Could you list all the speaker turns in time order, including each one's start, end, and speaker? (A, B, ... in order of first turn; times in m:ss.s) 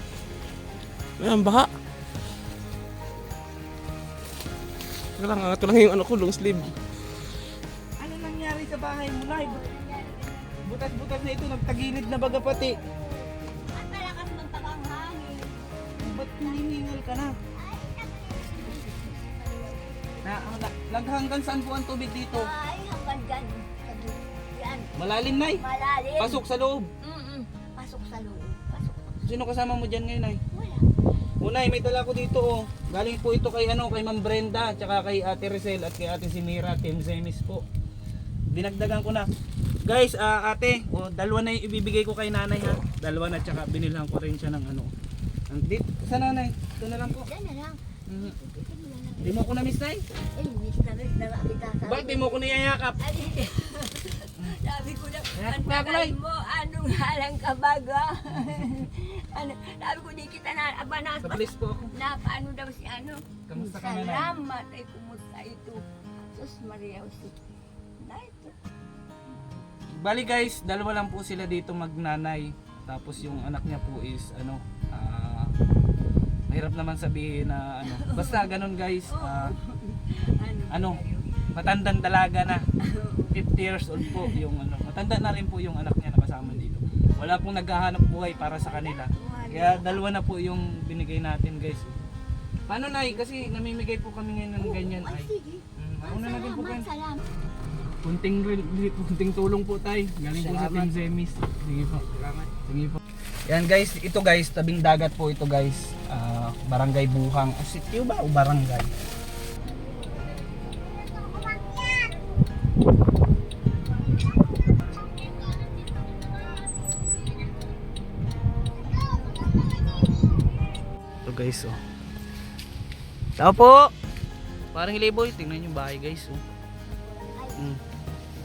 0:01.2-0:01.7 A
0:05.2-0:06.7 A
0:08.0-0:09.6 B
0:09.3-0:10.7 C
0:10.6-0:12.8 B
0:12.0-0:16.6 C
0:16.0-0:17.3 B
0:17.5-0:20.4 C
0:20.2-0:22.5 B
0:22.3-0:26.4 C
0:25.0-0:25.6 B
0:26.2-0:26.9 B
0:27.0-0:29.3 C
0:29.2-0:30.4 B
0:30.5-0:30.8 C
0:31.4-0:37.6 B
0:38.5-0:39.3 B
0:39.8-0:44.9 B
0:45.5-0:47.3 B
0:47.0-0:49.6 C
0:48.1-0:48.3 B
0:49.2-0:50.0 B
0:50.3-1:05.8 C
0:51.8-0:53.2 B
0:55.3-0:56.2 B
0:58.4-0:58.6 B
1:01.2-1:01.9 B
1:03.5-1:04.3 B
1:06.3-1:07.4 C
1:08.0-1:08.5 C
1:10.0-1:15.5 B
1:16.5-1:19.5 B
1:17.8-1:21.5 C
1:20.7-1:21.0 B
1:21.5-1:22.6 B
1:22.8-1:24.4 C
1:23.3-1:32.0 B
1:28.4-1:30.0 C
1:32.7-1:36.8 B
1:34.6-1:37.2 C
1:38.0-1:48.9 B
1:40.4-1:40.8 C
1:49.9-1:50.4 C
1:51.4-1:52.0 C
1:55.6-1:56.2 C
1:59.0-1:59.5 C
2:01.2-2:01.8 B
2:03.4-2:03.9 B
2:04.7-2:06.4 B
2:07.0-2:07.6 C